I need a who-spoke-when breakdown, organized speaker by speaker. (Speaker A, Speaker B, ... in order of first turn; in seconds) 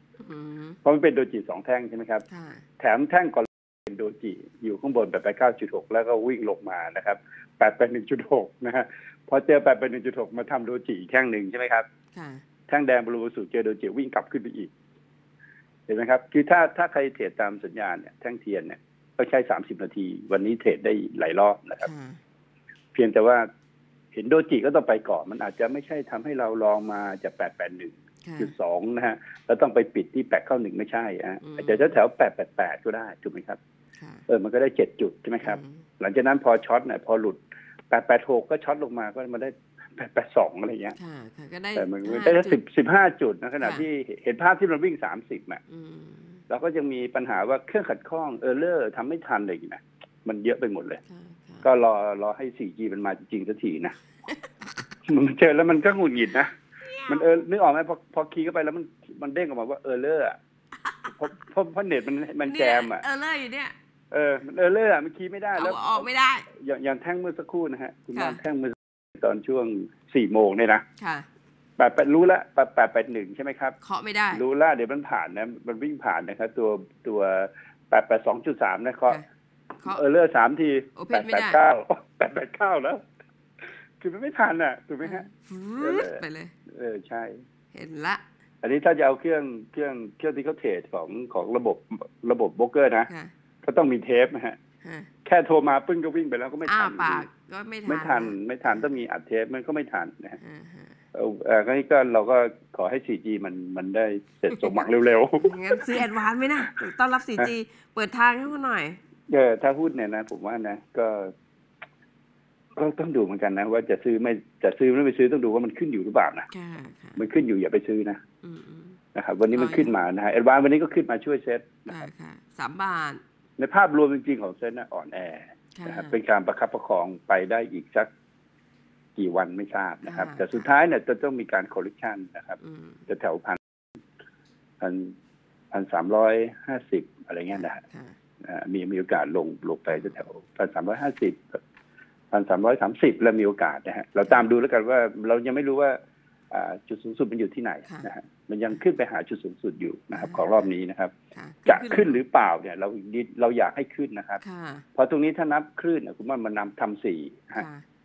Speaker A: 0.2-0.8, 2.3-2.6, 12.1-12.4, 21.8-22.2, 28.2-28.5, 31.4-31.9, 34.0-34.2, 35.4-35.9, 41.0-42.6, 43.6-43.9, 45.7-46.4, 51.1-51.7, 54.3-54.7, 56.9-57.3, 60.8-61.2, 62.5-63.7, 65.5-66.5, 68.1-68.4, 71.0-71.3, 73.8-74.4, 81.0-81.6, 85.0-86.5, 87.7-88.2, 93.1-93.3, 94.8-95.1, 96.7-98.9, 100.4-101.0, 104.5-104.8, 105.4-109.0, 116.5-117.2, 118.4-119.0, 119.5-119.9, 121.9-123.2, 125.8-126.2, 130.1-130.7, 132.6-133.0, 137.5-138.2, 139.9-140.2, 150.1-150.7, 151.3-152.2, 154.4-154.8, 157.6-157.8
Speaker B: 0.8-2.2, 2.8-11.9, 12.7-14.7, 15.9-21.9, 22.9-23.5, 24.1-33.6, 34.3-41.0, 41.8-45.6, 46.5-51.0, 51.6-54.0, 55.0-56.5, 57.1-60.4, 61.2-63.0, 64.1-70.8, 71.8-73.8, 74.3-79.2, 79.8-83.0, 84.0-85.3, 85.8-87.4, 88.6-93.1, 93.6-94.6, 95.2-97.3, 97.9-100.4, 101.1-106.1, 109.3-111.3, 112.8-116.5, 117.2-118.2, 119.2-122.1, 123.6-128.1, 129.2-133.6, 134.8-135.1, 135.7-137.8, 138.4-141.6, 142.3-146.0, 146.5-151.1, 151.7-154.4, 155.0-157.7